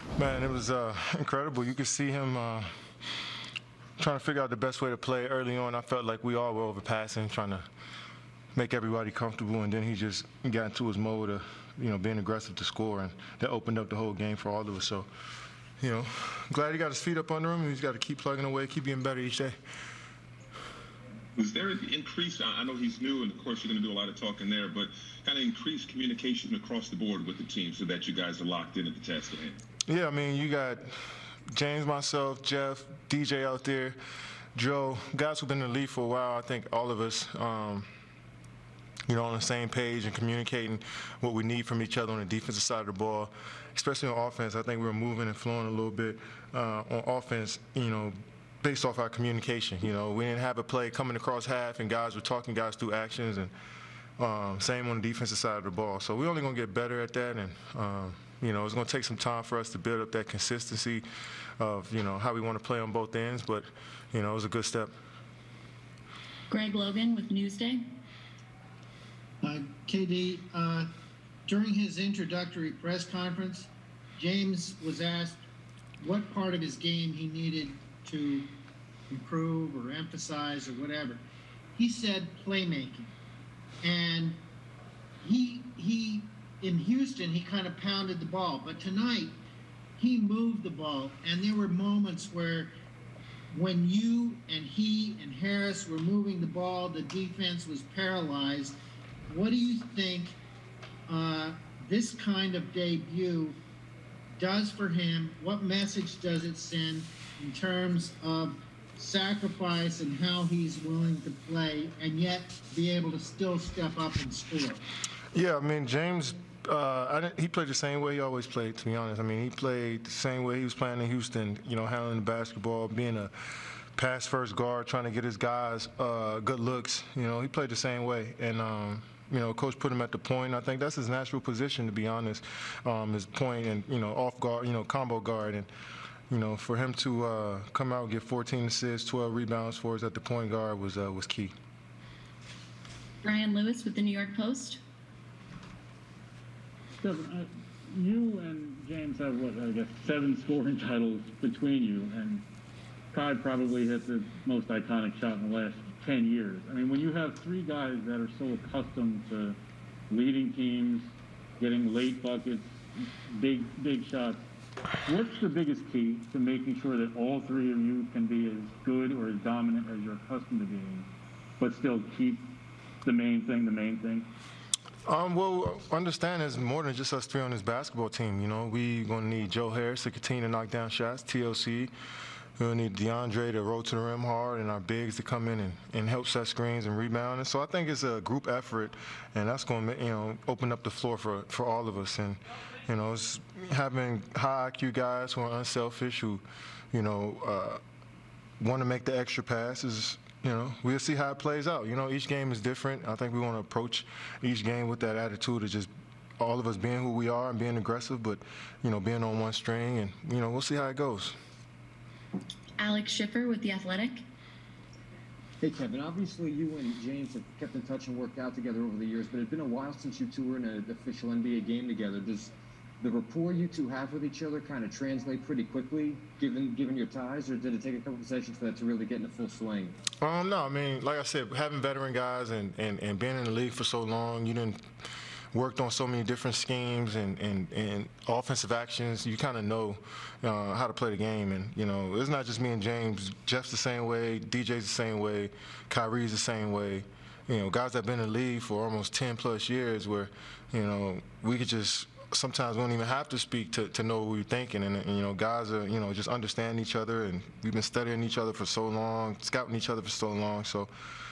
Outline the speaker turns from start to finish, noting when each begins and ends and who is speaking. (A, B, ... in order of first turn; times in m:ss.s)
0:00.2-0:02.7 A
0:04.0-0:07.6 A
0:08.5-0:15.1 A
0:15.8-0:19.6 A
0:21.4-0:29.6 B
0:29.9-0:30.9 A
0:31.5-0:34.0 A
0:34.5-0:37.9 A
0:39.1-0:53.5 A
0:54.2-1:01.0 A
1:01.6-1:04.9 A
1:06.5-1:07.8 C
1:09.4-1:10.9 D
1:11.4-1:15.4 D
1:16.0-1:18.5 D
1:19.1-1:21.2 D
1:21.8-1:23.1 D
1:23.8-1:24.4 D
1:25.2-1:29.3 D
1:30.0-1:32.7 D
1:33.5-1:38.8 D
1:39.3-1:40.4 D
1:41.1-1:43.6 D
1:44.4-1:54.8 D
1:55.3-2:03.3 A
2:03.9-2:15.7 A
2:16.3-2:21.5 A
2:23.2-2:24.8 C
2:27.0-2:32.4 E
2:33.1-2:39.6 E
2:40.1-2:44.4 E
2:45.0-2:51.1 E
2:51.6-2:52.5 E
2:53.0-2:54.3 E
2:55.0-3:01.9 A
3:02.6-3:17.8 A
3:18.6-3:31.4 A
3:32.8-3:34.2 C
3:35.6-3:49.9 F
3:50.2-3:54.8 A
3:55.5-4:20.9 A